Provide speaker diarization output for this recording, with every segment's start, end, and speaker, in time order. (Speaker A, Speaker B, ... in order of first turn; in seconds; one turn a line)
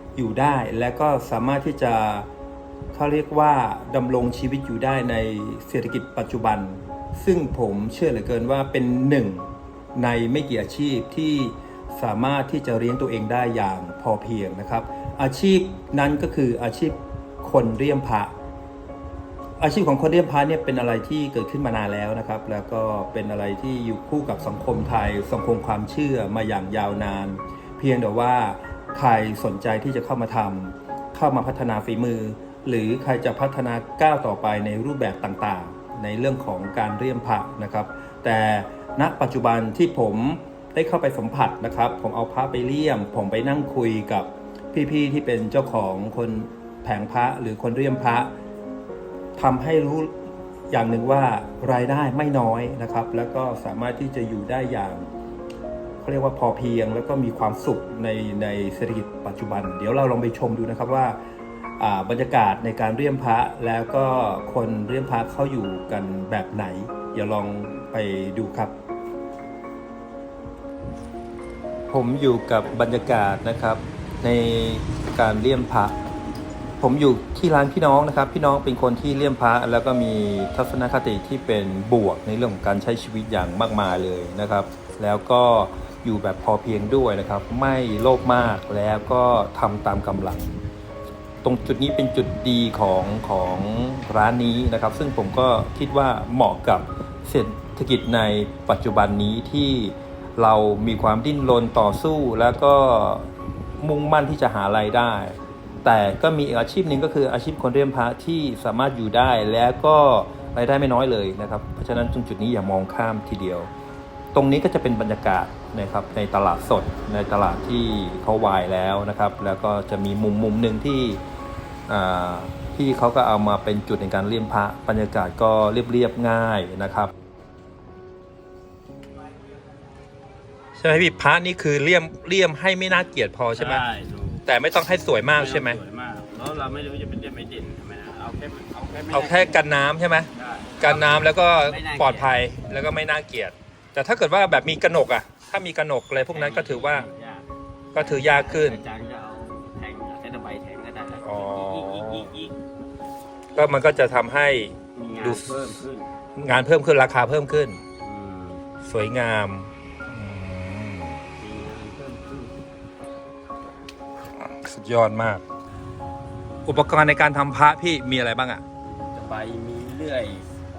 Speaker A: 0.2-2.3
Speaker A: 2.9-18.3
Speaker A: 19.6-48.3
Speaker A: 49.4-50.1
Speaker A: 50.7-55.1
Speaker A: 56.0-61.2
Speaker A: 61.8-68.8
Speaker A: 71.9-76.0
Speaker A: 76.8-90.6
Speaker A: 91.4-113.7
Speaker A: 114.3-121.2
Speaker A: 121.9-127.1
Speaker A: 130.8-133.8
Speaker B: 133.6-134.4
Speaker A: 134.4-135.8
Speaker B: 135.3-139.6
Speaker A: 139.1-140.3
Speaker B: 140.3-142.4
Speaker A: 140.8-147.1
Speaker B: 146.3-152.6
Speaker A: 147.9-148.8
Speaker A: 151.2-152.3
Speaker A: 153.6-155.5
Speaker B: 154.9-156.1
Speaker A: 156.4-157.8
Speaker B: 158.0-158.6
Speaker A: 158.8-161.2
Speaker B: 161.4-162.6
Speaker A: 164.4-165.4
Speaker A: 166.7-168.6
Speaker B: 168.8-170.5